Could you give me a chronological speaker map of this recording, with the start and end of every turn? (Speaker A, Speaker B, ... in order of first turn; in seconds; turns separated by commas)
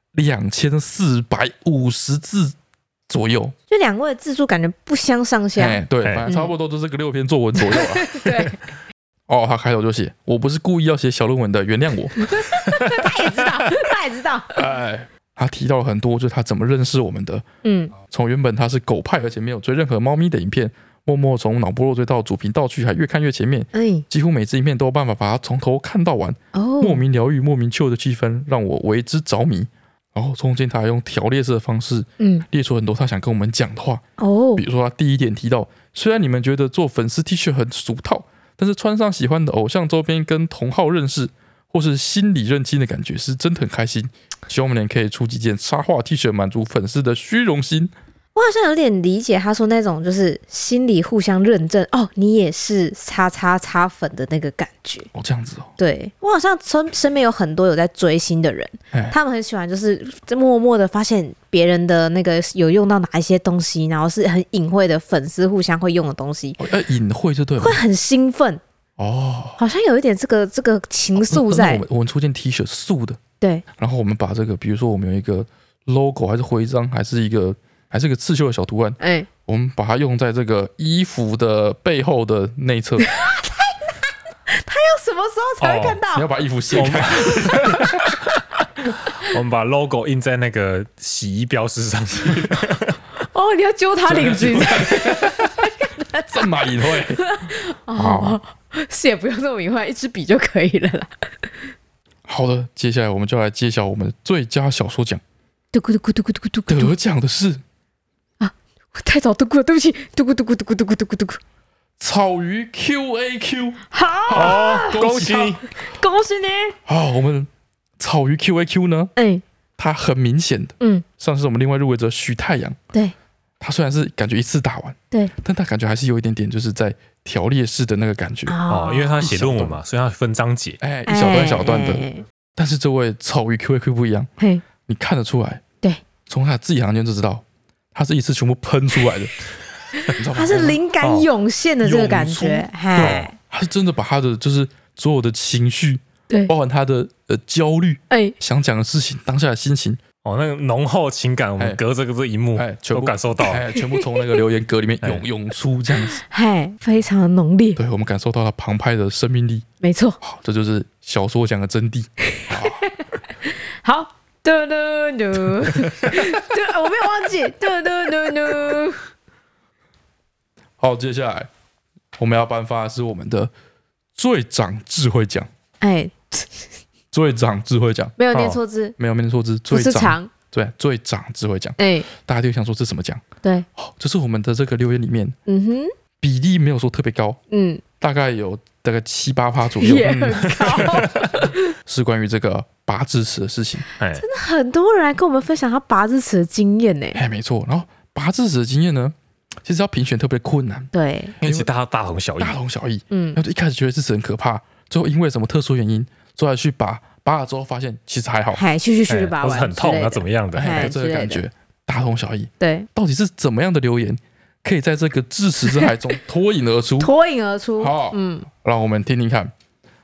Speaker A: 0.1-2.6, Speaker A: 3.1-3.5, Speaker B: 3.7-6.5, Speaker A: 5.6-8.5, Speaker B: 7.6-8.6, Speaker A: 9.3-12.3, Speaker B: 12.2-14.6, Speaker A: 14.6-17.4, Speaker B: 17.6-17.9, Speaker A: 18.0-34.0, Speaker B: 23.7-24.1, Speaker B: 26.5-27.0, Speaker B: 32.2-32.4, Speaker B: 34.2-34.6, Speaker A: 34.6-47.9, Speaker B: 48.4-55.1, Speaker A: 55.1-55.7, Speaker B: 55.8-66.6, Speaker A: 66.6-67.8, Speaker B: 67.6-68.6, Speaker A: 69.0-69.6, Speaker B: 69.6-71.8, Speaker A: 71.2-73.2, Speaker A: 73.7-83.1, Speaker B: 79.0-79.3, Speaker B: 83.0-86.3, Speaker C: 85.6-86.0, Speaker A: 86.1-88.0, Speaker C: 86.7-88.1, Speaker B: 87.2-88.1, Speaker C: 89.2-92.9, Speaker A: 92.3-92.6, Speaker B: 93.2-101.1, Speaker A: 94.1-95.5, Speaker A: 96.3-97.2, Speaker A: 98.0-98.4, Speaker A: 102.3-105.2, Speaker B: 105.7-106.9, Speaker A: 106.7-107.6, Speaker B: 108.4-111.4, Speaker A: 112.0-115.6, Speaker B: 113.9-115.0, Speaker C: 114.3-115.6, Speaker B: 115.8-116.8, Speaker A: 116.9-119.1, Speaker B: 119.2-119.4, Speaker A: 119.8-122.8, Speaker A: 123.6-128.6, Speaker B: 128.5-129.3, Speaker C: 128.7-130.8, Speaker A: 129.2-129.8, Speaker A: 130.8-134.3, Speaker B: 131.1-132.2, Speaker B: 134.4-134.6, Speaker A: 134.9-135.6, Speaker A: 136.3-139.3, Speaker B: 140.0-143.3, Speaker A: 140.1-140.9, Speaker A: 141.9-150.0, Speaker C: 142.9-143.3, Speaker B: 148.1-148.3, Speaker C: 150.2-153.6, Speaker A: 152.6-156.2, Speaker B: 153.8-154.0, Speaker B: 156.0-157.8, Speaker A: 157.8-159.7, Speaker B: 159.8-160.2, Speaker A: 160.2-162.8, Speaker B: 162.3-169.1, Speaker A: 165.5-166.2, Speaker A: 170.8-171.5, Speaker A: 172.2-173.5, Speaker A: 174.1-175.5, Speaker B: 175.8-176.7, Speaker A: 177.1-178.2, Speaker B: 178.2-178.9, Speaker C: 178.3-178.6, Speaker A: 179.0-183.2, Speaker B: 179.7-180.3, Speaker B: 181.8-182.1, Speaker A: 183.8-185.4, Speaker B: 185.5-185.9, Speaker A: 186.2-187.4, Speaker B: 187.5-187.8, Speaker A: 188.0-193.8, Speaker B: 189.8-191.7, Speaker C: 190.7-191.0, Speaker C: 194.0-194.2, Speaker B: 194.2-197.2, Speaker A: 197.1-200.9, Speaker B: 200.9-201.3, Speaker A: 201.4-201.7, Speaker C: 201.4-202.6, Speaker A: 202.4-208.6, Speaker B: 203.1-203.4, Speaker B: 208.5-211.4, Speaker C: 209.1-210.9, Speaker A: 210.5-217.1, Speaker B: 212.6-212.9, Speaker B: 217.0-218.5, Speaker A: 217.8-219.5